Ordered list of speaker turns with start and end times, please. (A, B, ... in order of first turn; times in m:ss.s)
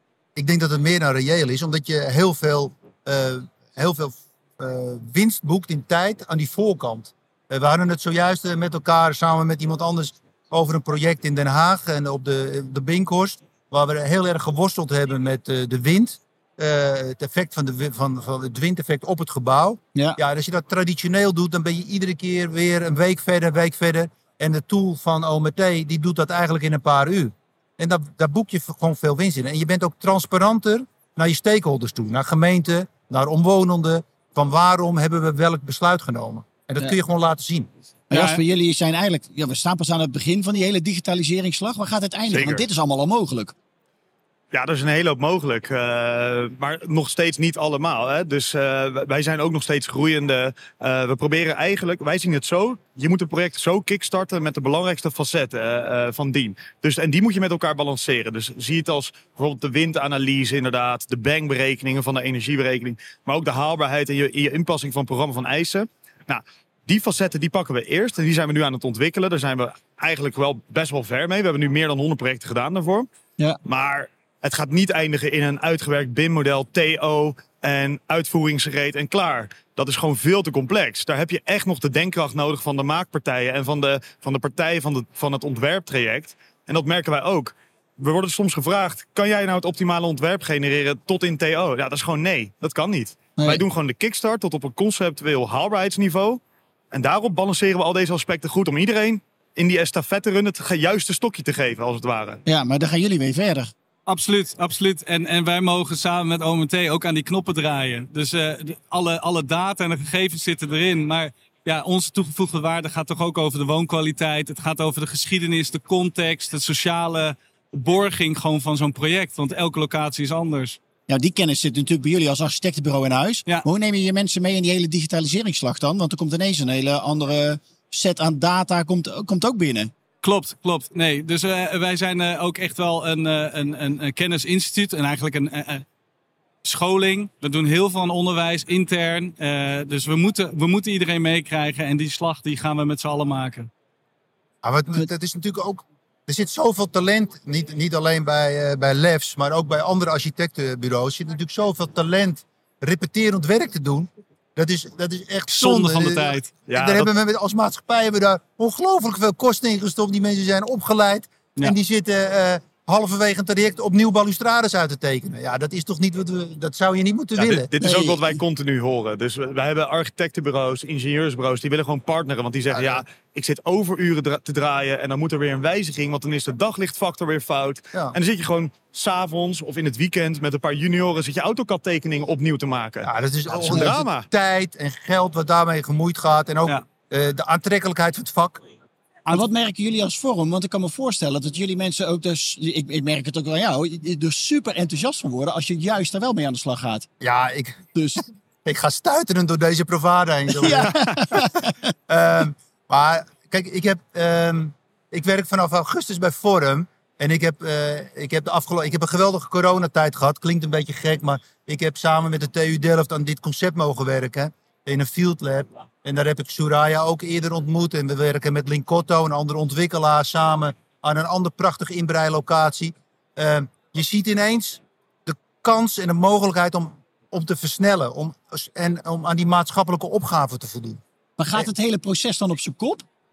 0:00.4-0:37.7 A
0:38.1-0:43.5 B
0:38.1-0:38.4 C
0:42.3-0:42.7 D
0:44.5-1:13.1 D
1:13.6-1:36.4 D
1:33.4-1:33.6 B
1:36.9-1:42.4 D
1:42.5-1:43.7 B
1:44.1-2:00.8 C
2:01.1-2:09.9 B
2:10.2-2:15.8 C
2:16.6-2:23.7 C
2:24.6-2:47.7 A
2:35.5-2:36.5 C
2:36.7-2:37.1 D
2:47.4-3:04.3 D
2:47.8-2:48.3 B
3:03.0-3:08.6 A
3:09.3-3:17.1 B
3:17.2-3:17.8 A
3:18.0-3:18.3 B
3:18.6-3:21.4 A
3:20.6-3:21.7 B
3:22.1-3:51.0 A
3:51.4-3:53.0 B